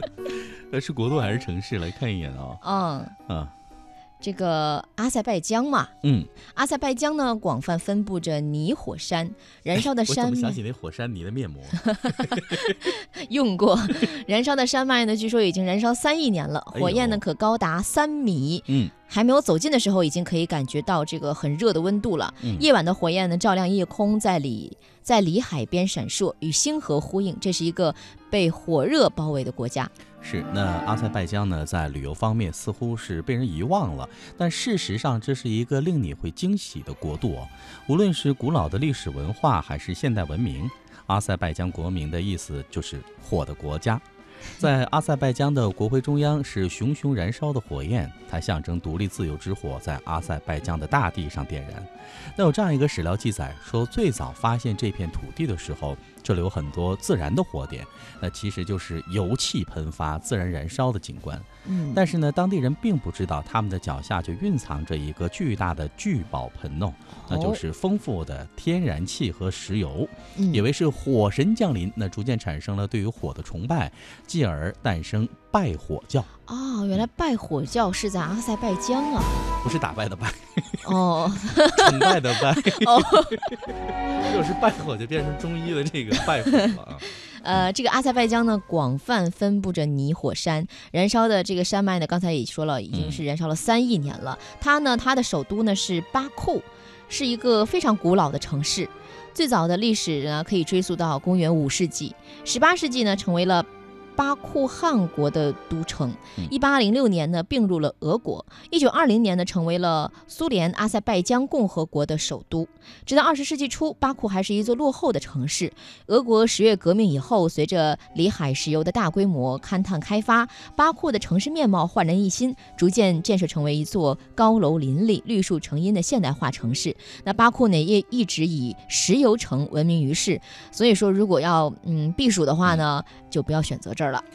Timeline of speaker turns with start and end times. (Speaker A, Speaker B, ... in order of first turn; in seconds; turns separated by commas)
Speaker A: 0.2-2.6, Speaker B: 2.6-3.1, Speaker A: 3.3-3.5, Speaker B: 4.2-5.9, Speaker A: 6.0-6.3, Speaker B: 6.5-10.6, Speaker A: 9.7-12.7, Speaker B: 11.8-29.9, Speaker A: 16.7-17.2, Speaker A: 18.7-18.9, Speaker A: 22.4-22.7, Speaker A: 30.2-44.0, Speaker A: 44.5-76.3, Speaker B: 61.6-62.0, Speaker B: 67.1-67.6, Speaker B: 70.3-70.6, Speaker B: 76.5-79.4, Speaker A: 79.6-80.9, Speaker B: 80.8-83.5, Speaker A: 81.7-87.0, Speaker B: 87.1-134.2, Speaker A: 92.9-93.2